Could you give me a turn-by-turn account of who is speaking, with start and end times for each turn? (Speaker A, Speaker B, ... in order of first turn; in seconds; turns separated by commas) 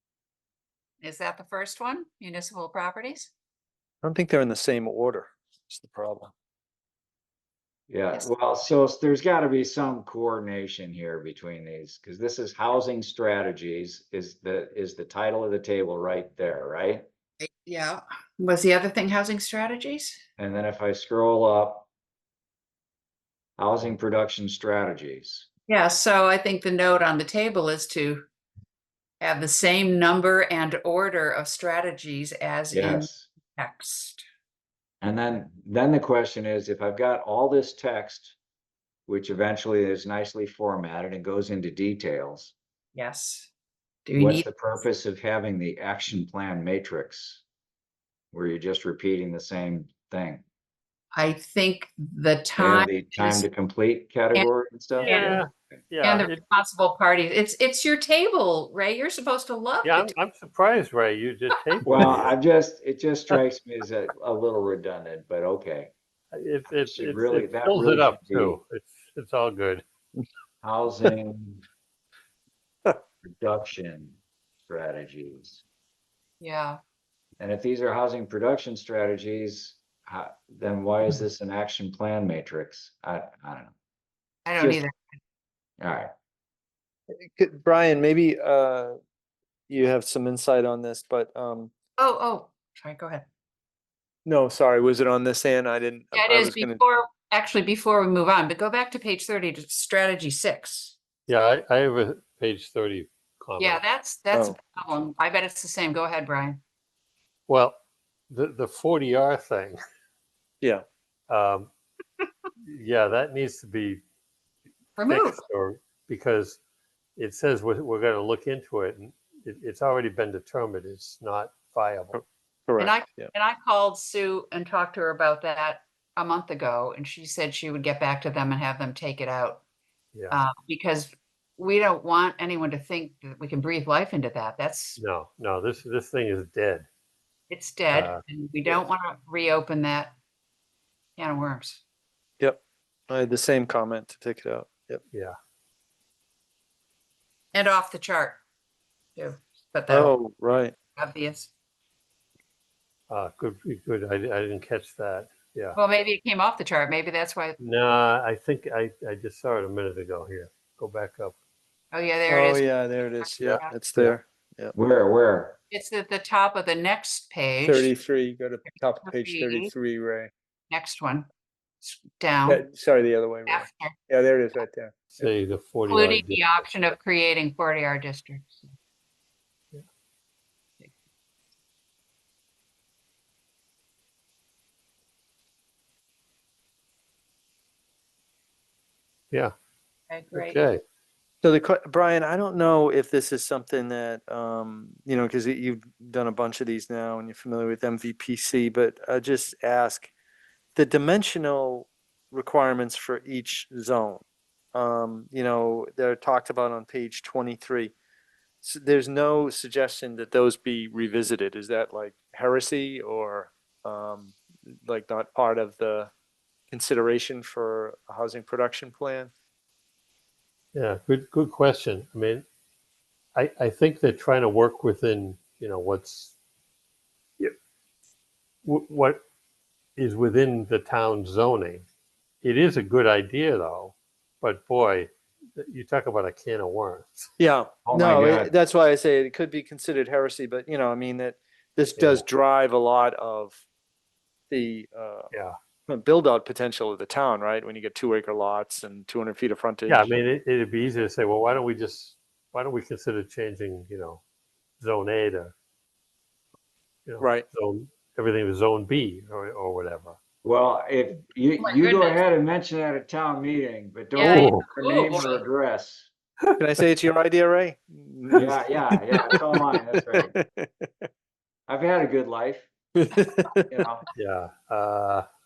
Speaker A: 1.0-3.3, Speaker B: 4.0-6.3, Speaker C: 7.9-17.1, Speaker A: 17.4-20.2, Speaker C: 20.4-21.9, Speaker C: 23.6-25.5, Speaker A: 25.7-28.2, Speaker A: 29.2-34.2, Speaker C: 32.7-33.3, Speaker C: 35.0-38.4, Speaker C: 39.1-42.5, Speaker A: 43.0-43.5, Speaker A: 44.0-44.5, Speaker C: 44.2-47.4, Speaker C: 48.3-50.4, Speaker A: 51.1-53.5, Speaker C: 52.6-55.8, Speaker A: 54.3-55.4, Speaker D: 55.0-56.4, Speaker A: 56.0-60.1, Speaker D: 59.8-62.3, Speaker C: 61.9-65.9, Speaker D: 66.3-69.8, Speaker C: 66.8-68.6, Speaker C: 70.6-71.6, Speaker C: 73.2-75.6, Speaker A: 76.4-76.8, Speaker C: 77.4-83.7, Speaker A: 84.5-85.2, Speaker C: 84.6-84.8, Speaker C: 85.8-86.1, Speaker B: 87.2-89.0, Speaker B: 89.7-91.7, Speaker A: 92.0-93.3, Speaker B: 94.2-96.8, Speaker A: 96.1-101.0, Speaker D: 101.3-103.8, Speaker A: 103.6-106.6, Speaker D: 107.5-109.8, Speaker D: 111.3-111.7, Speaker D: 112.7-114.0, Speaker A: 115.0-115.4, Speaker D: 115.1-116.6, Speaker D: 117.2-122.2, Speaker B: 122.1-123.3, Speaker A: 122.8-129.6, Speaker D: 130.1-130.4, Speaker A: 130.3-135.0, Speaker D: 135.0-136.9, Speaker A: 137.5-140.2, Speaker D: 137.9-138.2, Speaker A: 141.2-141.8, Speaker B: 142.4-145.0, Speaker A: 147.5-148.4, Speaker A: 149.2-150.1, Speaker B: 149.9-150.7, Speaker A: 151.0-151.5, Speaker D: 153.1-155.8, Speaker A: 155.8-157.6, Speaker D: 157.6-161.3, Speaker A: 161.9-163.8, Speaker B: 162.3-164.8, Speaker C: 164.8-165.6, Speaker A: 165.7-167.9, Speaker B: 167.6-170.3, Speaker A: 168.7-169.7, Speaker A: 170.7-171.3, Speaker A: 172.2-172.6, Speaker B: 172.4-175.3, Speaker A: 173.5-173.9, Speaker D: 175.1-176.7, Speaker A: 175.9-178.7, Speaker A: 190.1-190.6, Speaker D: 190.4-190.8, Speaker B: 191.4-200.1, Speaker B: 200.8-204.2, Speaker B: 204.7-207.9, Speaker B: 208.6-216.1, Speaker B: 216.7-219.3, Speaker D: 220.7-222.4, Speaker D: 223.3-226.3, Speaker D: 228.7-229.2, Speaker D: 230.0-231.9, Speaker D: 232.4-237.3, Speaker B: 237.4-243.6, Speaker C: 237.9-238.5, Speaker D: 242.0-242.3, Speaker B: 244.5-245.3, Speaker B: 245.9-250.2, Speaker D: 249.9-254.2, Speaker D: 254.8-255.6, Speaker D: 257.1-260.2, Speaker B: 257.2-257.5, Speaker C: 260.4-266.1, Speaker A: 261.6-262.2, Speaker A: 264.1-265.4, Speaker D: 264.2-264.7, Speaker B: 266.6-271.1, Speaker C: 268.3-270.3, Speaker C: 271.7-272.7, Speaker B: 273.0-273.8, Speaker C: 273.7-274.1, Speaker D: 274.2-275.3